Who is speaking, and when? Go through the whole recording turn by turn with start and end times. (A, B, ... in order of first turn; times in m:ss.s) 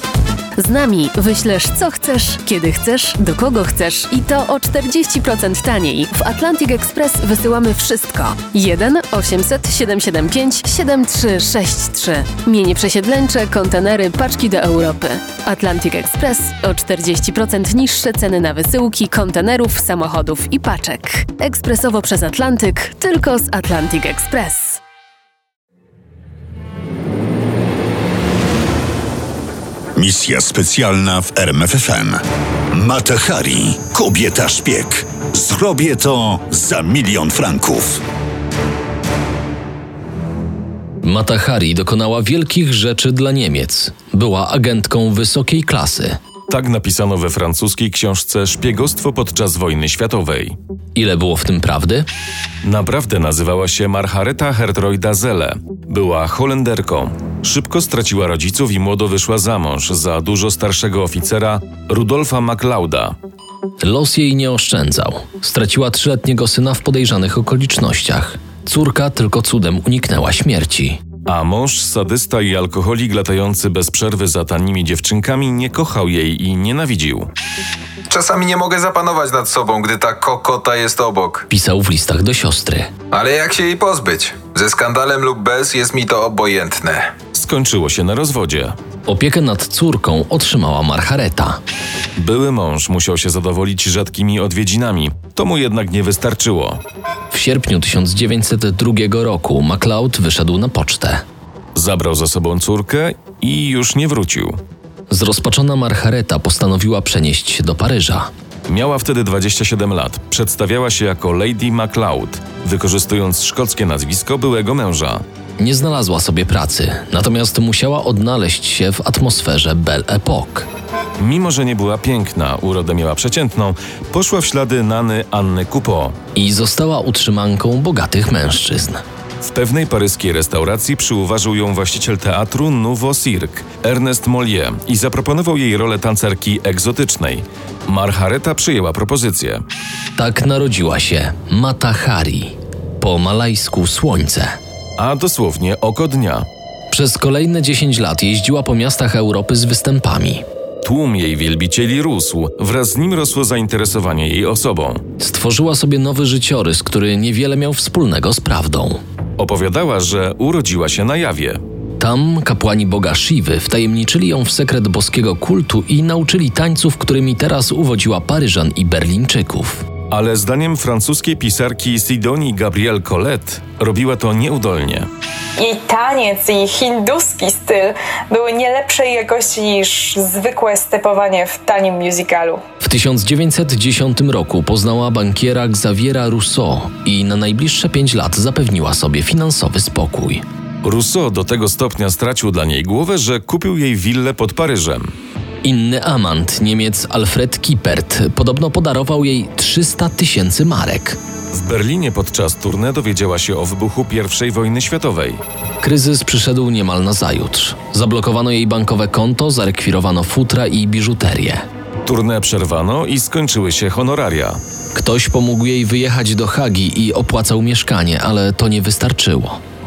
0:00.6-0:24.8 A
0:30.0-0:38.0 B
0:41.0-0:46.2 C
0:46.5-0:50.6 D
0:51.0-0:52.1 C
0:52.6-1:03.2 D
1:03.8-1:11.0 C
1:11.3-1:17.3 D
1:18.1-1:21.4 E
1:21.5-1:22.9 C
1:23.1-1:27.1 E
1:27.3-1:28.8 D
1:29.1-1:31.6 C
1:32.2-1:36.8 D
1:37.3-1:41.2 C
1:41.8-1:44.6 D
1:45.1-1:48.3 C
1:48.7-1:55.2 D
1:55.6-2:00.7 C
2:01.2-2:06.2 D
2:06.4-2:09.0 C
2:09.4-2:19.6 D
2:20.2-2:24.6 C
2:25.0-2:26.5 D
2:26.9-2:30.4 C
2:30.8-2:35.0 D
2:35.2-2:39.0 C
2:39.4-2:41.6 D
2:42.0-2:49.8 C
2:50.1-2:55.1 D
2:55.6-3:02.6 F
3:02.8-3:10.4 C
3:10.8-3:15.1 D
3:15.6-3:21.2 C
3:21.5-3:25.4 D
3:25.8-3:31.6 C
3:32.0-3:34.6 D
3:35.0-3:39.6 C